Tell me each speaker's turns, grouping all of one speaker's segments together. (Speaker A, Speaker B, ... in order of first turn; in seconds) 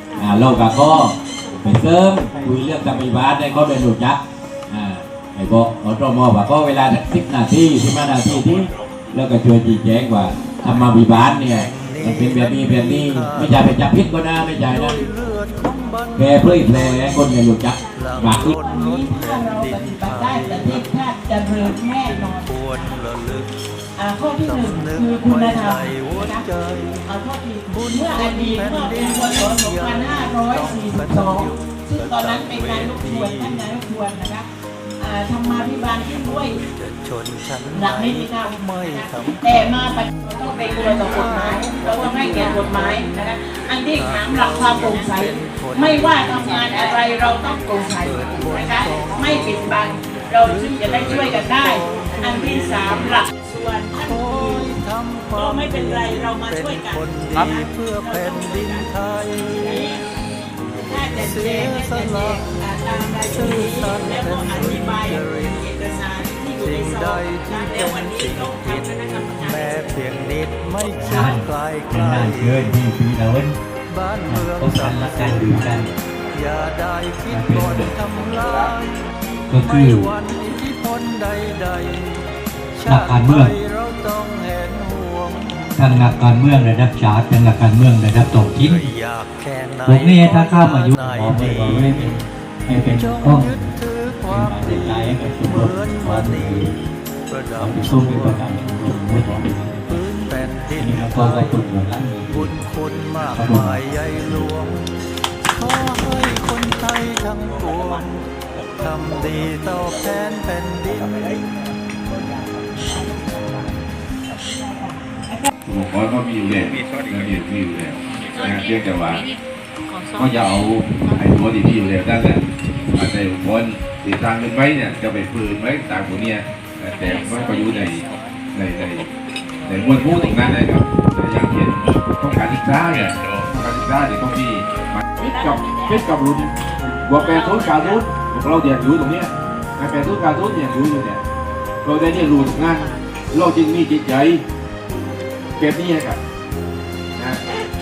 Speaker A: 0.1-15.0, 16.2-18.6, 77.7-77.9
Speaker B: 2.3-2.9, 11.1-14.0, 14.6-17.4, 17.9-20.9, 21.7-23.5, 24.4-27.0, 27.6-33.8, 36.6-43.0, 43.9-46.9, 48.0-53.2, 53.9-59.8, 61.1-62.5, 63.2-65.6, 66.6-72.8, 73.9-79.0, 79.5-86.4, 88.1-92.1, 92.8-96.7, 97.3-98.6, 99.9-101.7, 102.2-104.9, 105.5-111.4
Speaker C: 18.2-23.0, 24.0-26.4, 27.1-34.5, 35.0-36.6, 37.7-54.7, 55.3-69.8, 112.9-113.5, 114.4-115.5
Speaker D: 71.0-73.5, 74.3-75.9, 77.3-77.7, 79.5-80.1, 82.8-83.5, 85.8-88.8, 89.8-93.7, 94.3-96.7, 97.6-100.0, 100.8-102.5, 103.3-104.6
Speaker E: 115.7-119.3, 120.2-129.1, 129.6-141.2, 141.8-144.4, 145.6-146.2